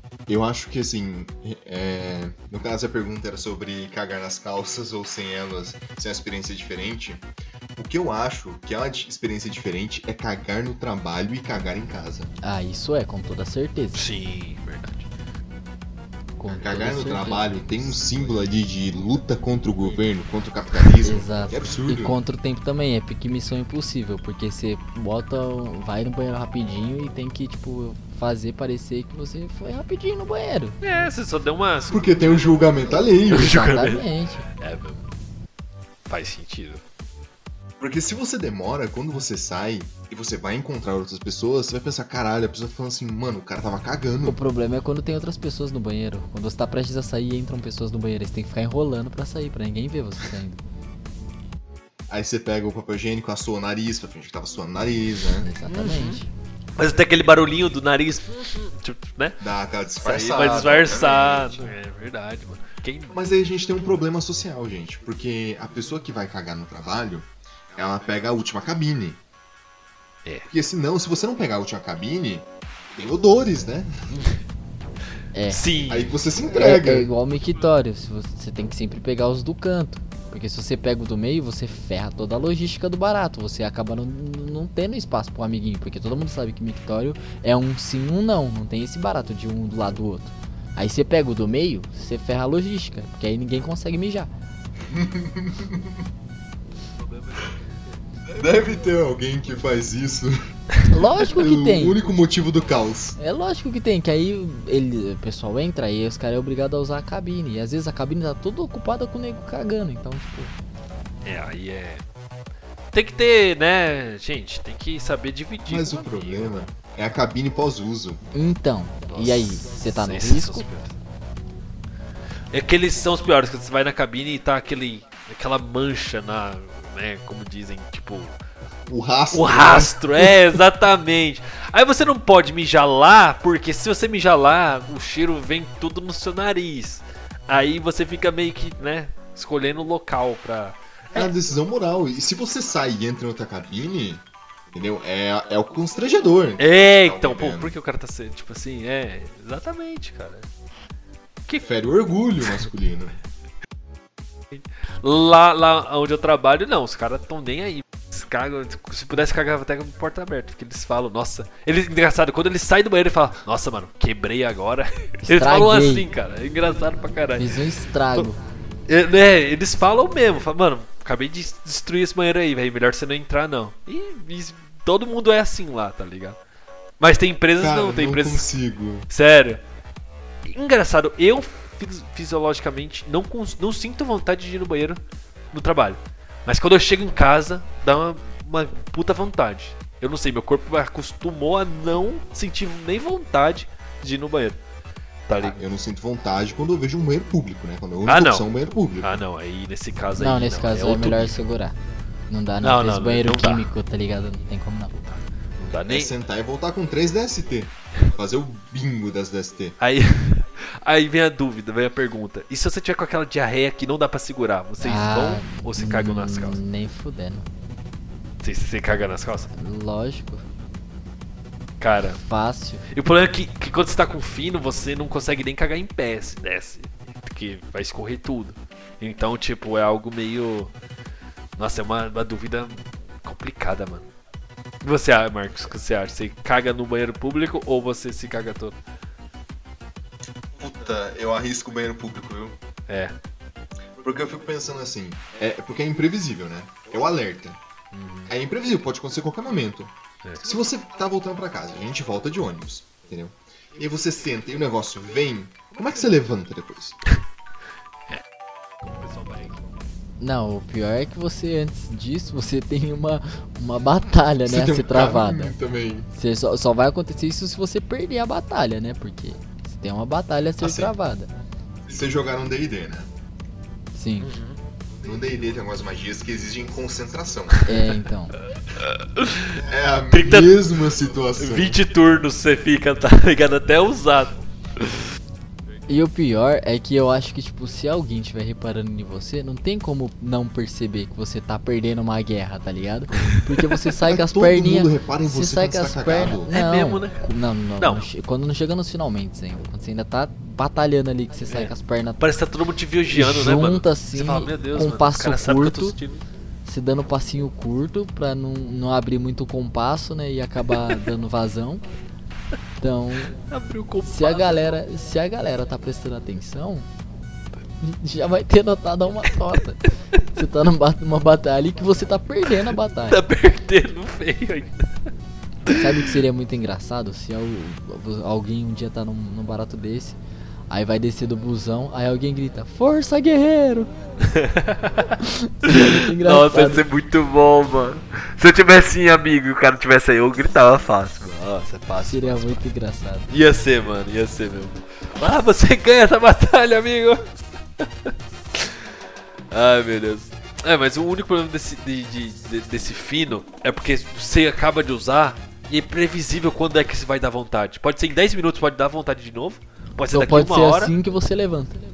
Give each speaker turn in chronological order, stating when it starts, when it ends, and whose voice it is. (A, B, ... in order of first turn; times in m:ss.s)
0:00.3-0:12.3 A
0:12.4-0:14.1 B
0:13.9-0:15.1 C
0:16.4-0:18.0 B
0:16.5-0:22.2 A
0:21.0-0:30.8 B
0:30.8-0:35.1 C
0:31.9-0:33.6 A
0:33.3-0:34.4 B
0:36.1-0:36.8 C
0:37.8-0:44.4 A
0:44.2-0:50.6 B
0:52.1-0:55.5 A
0:55.4-0:56.3 B
0:55.6-0:56.2 C
0:56.8-0:59.4 C
0:59.4-1:01.7 A
1:00.0-1:03.2 C
1:03.1-1:09.2 A
1:10.5-1:13.9 A
1:14.1-1:14.4 C
1:15.3-1:15.6 B
1:15.5-1:16.2 C
1:15.9-1:17.1 A
1:16.5-1:34.3 B
1:34.9-1:36.0 A
1:38.3-1:40.5 A
1:40.9-1:42.0 B
1:41.2-1:43.2 A
1:43.2-1:50.5 B
1:51.2-1:52.0 C
1:52.9-1:56.6 C
1:55.7-1:58.2 A
1:58.3-2:00.6 B
1:59.1-2:01.0 C
2:02.5-2:08.3 C
2:08.9-2:10.4 A
2:09.3-2:21.3 C
2:21.1-2:27.8 A
2:26.6-2:30.5 C
2:31.5-2:33.2 A
2:34.5-2:47.6 C
2:45.2-2:46.0 B
2:47.4-2:48.4 B
2:48.9-2:56.4 C
2:57.0-2:58.5 C
2:57.6-2:59.1 A
2:59.1-2:59.6 C
3:00.4-3:05.0 C
3:05.5-3:14.6 C
3:15.3-3:15.6 C
3:15.4-3:19.2 A
3:18.0-3:18.5 C
3:19.0-3:21.4 C
3:20.2-3:21.7 B
3:22.3-3:25.2 B
3:22.6-3:23.7 C
3:25.6-3:26.1 C
3:25.7-3:29.7 A
3:29.8-3:36.6 C
3:34.8-3:37.5 B
3:38.4-3:39.5 C
3:39.5-3:40.4 B
3:41.8-3:42.2 C
3:42.2-3:42.9 B
3:42.9-3:50.7 C
3:51.6-3:54.0 C
3:54.8-3:58.8 C
4:00.6-4:02.6 A
4:02.9-4:03.1 C
4:04.0-4:07.6 A
4:07.9-4:08.3 C
4:08.3-4:17.0 A
4:18.8-4:19.6 C
4:20.2-4:25.6 B
4:24.4-4:26.1 A
4:26.1-4:31.3 B
4:30.6-4:30.9 A
4:31.8-4:33.1 A
4:33.9-4:34.3 B
4:34.2-4:34.6 C
4:35.0-4:37.6 A
4:37.6-4:38.4 B
4:38.7-4:40.7 C
4:39.6-4:41.8 A
4:41.4-4:45.0 C
4:45.9-5:02.2 B
4:53.2-4:53.7 C
4:54.1-4:56.5 A
4:56.5-4:57.2 C
4:57.8-4:58.1 C
5:01.5-5:06.2 C
5:03.1-5:06.0 B
5:06.6-5:11.9 B
5:10.8-5:11.0 C
5:12.8-5:13.4 B
5:13.4-5:14.7 C
5:14.0-5:16.9 B
5:17.8-5:23.2 B
5:23.0-5:24.9 C
5:25.6-5:26.1 C
5:25.7-5:30.2 B
5:30.7-5:33.9 B
5:34.2-5:35.1 C
5:35.2-5:36.8 B
5:35.6-5:42.6 C
5:42.0-5:43.3 B
5:43.3-5:49.0 C
5:49.5-6:00.9 C
6:00.1-6:01.8 B